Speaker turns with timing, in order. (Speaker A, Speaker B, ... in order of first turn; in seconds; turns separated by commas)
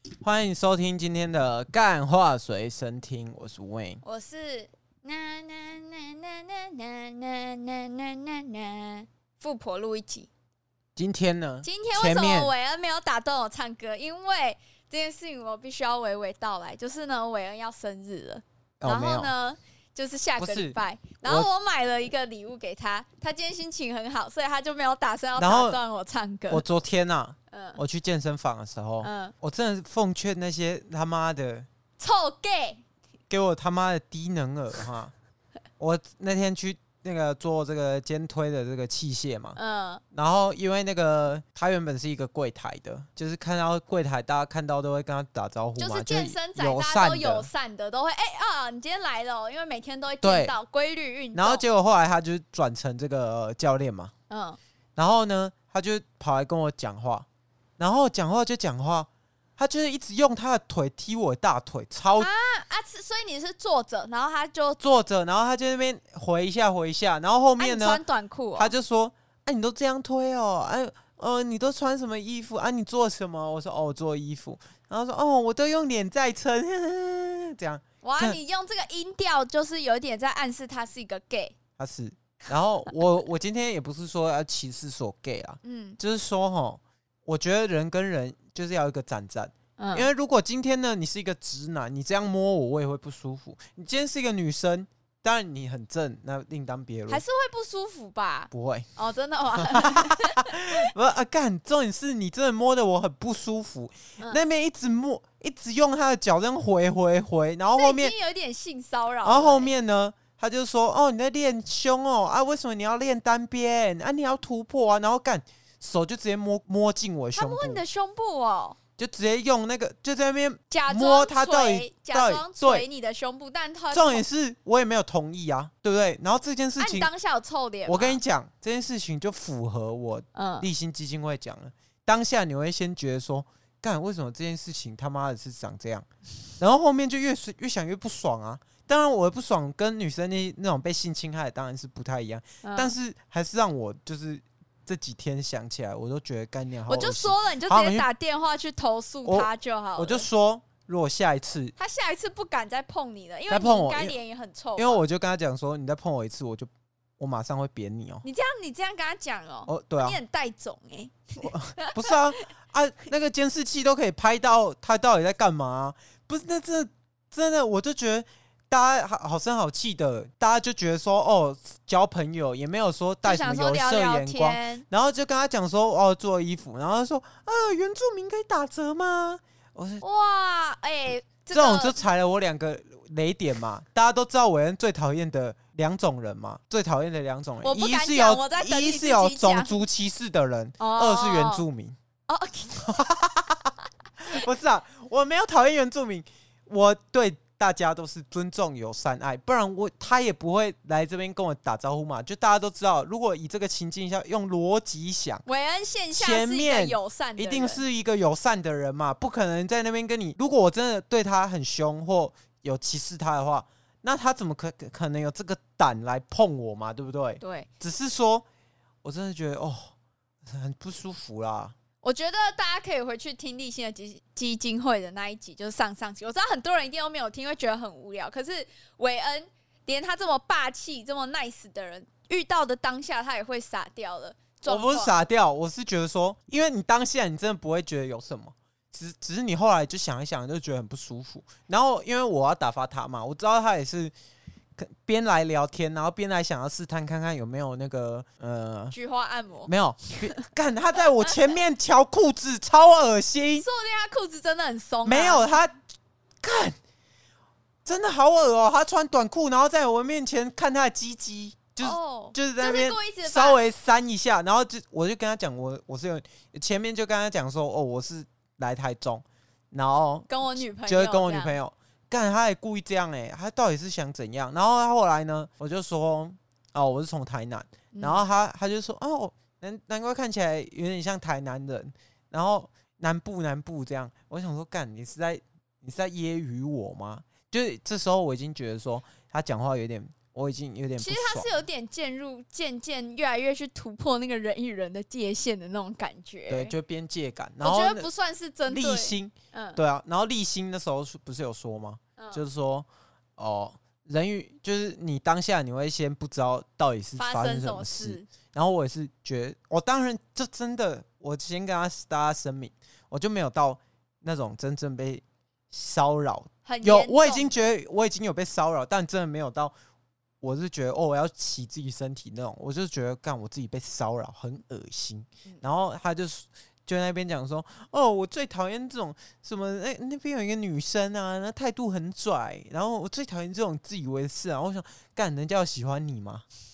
Speaker A: 0.2-4.0, Speaker B: 4.0-10.3, Speaker A: 10.9-12.5, Speaker B: 11.6-26.6, Speaker A: 18.8-19.3, Speaker A: 20.4-21.5, Speaker A: 25.4-25.8, Speaker A: 26.5-31.7, Speaker B: 27.5-27.8, Speaker B: 29.0-29.3, Speaker B: 32.0-32.8, Speaker A: 33.3-35.1, Speaker A: 35.8-39.6, Speaker B: 39.5-40.0, Speaker A: 40.1-47.5, Speaker B: 45.8-51.6, Speaker A: 50.2-50.5, Speaker A: 51.3-54.1, Speaker B: 54.3-54.6, Speaker A: 55.0-57.2, Speaker A: 57.8-62.3, Speaker B: 62.2-64.8, Speaker A: 64.8-68.0, Speaker B: 67.6-68.7, Speaker A: 68.5-78.4, Speaker B: 78.0-81.5, Speaker A: 81.8-97.2, Speaker B: 85.6-86.0, Speaker B: 89.8-90.1, Speaker B: 97.1-100.9, Speaker A: 98.5-98.9, Speaker A: 99.5-108.1, Speaker B: 107.8-109.7, Speaker A: 109.2-117.8, Speaker B: 117.3-118.8, Speaker A: 119.0-122.8, Speaker B: 120.7-124.2, Speaker A: 123.9-127.1, Speaker B: 126.8-128.2, Speaker A: 127.9-136.1, Speaker B: 130.3-130.7, Speaker A: 136.6-148.1, Speaker B: 142.6-142.9, Speaker B: 146.9-150.2, Speaker A: 149.2-151.7, Speaker B: 151.8-155.0, Speaker A: 153.5-154.2, Speaker A: 154.8-158.2, Speaker B: 158.2-162.2, Speaker A: 159.7-160.2, Speaker A: 161.4-180.0, Speaker B: 173.2-174.8, Speaker B: 180.0-182.0, Speaker A: 181.5-191.9, Speaker B: 187.6-189.8, Speaker B: 190.8-191.6, Speaker B: 192.3-193.1, Speaker A: 192.8-193.7, Speaker A: 194.2-205.4, Speaker B: 205.4-207.8, Speaker A: 206.1-218.4, Speaker B: 217.4-217.7, Speaker A: 219.0-219.9, Speaker A: 220.4-221.7, Speaker B: 222.0-235.2, Speaker A: 234.7-244.1, Speaker A: 244.8-248.9, Speaker B: 248.9-249.7, Speaker A: 249.7-253.7, Speaker B: 253.6-255.5, Speaker A: 255.0-255.8, Speaker A: 256.4-256.8, Speaker A: 257.8-291.5, Speaker B: 261.8-263.6, Speaker B: 270.3-271.6, Speaker B: 277.9-278.2, Speaker B: 291.0-296.7, Speaker A: 296.5-298.1, Speaker B: 297.6-299.8, Speaker A: 298.6-319.7, Speaker B: 302.2-302.4, Speaker B: 307.2-308.3, Speaker B: 316.6-317.5, Speaker A: 320.4-336.4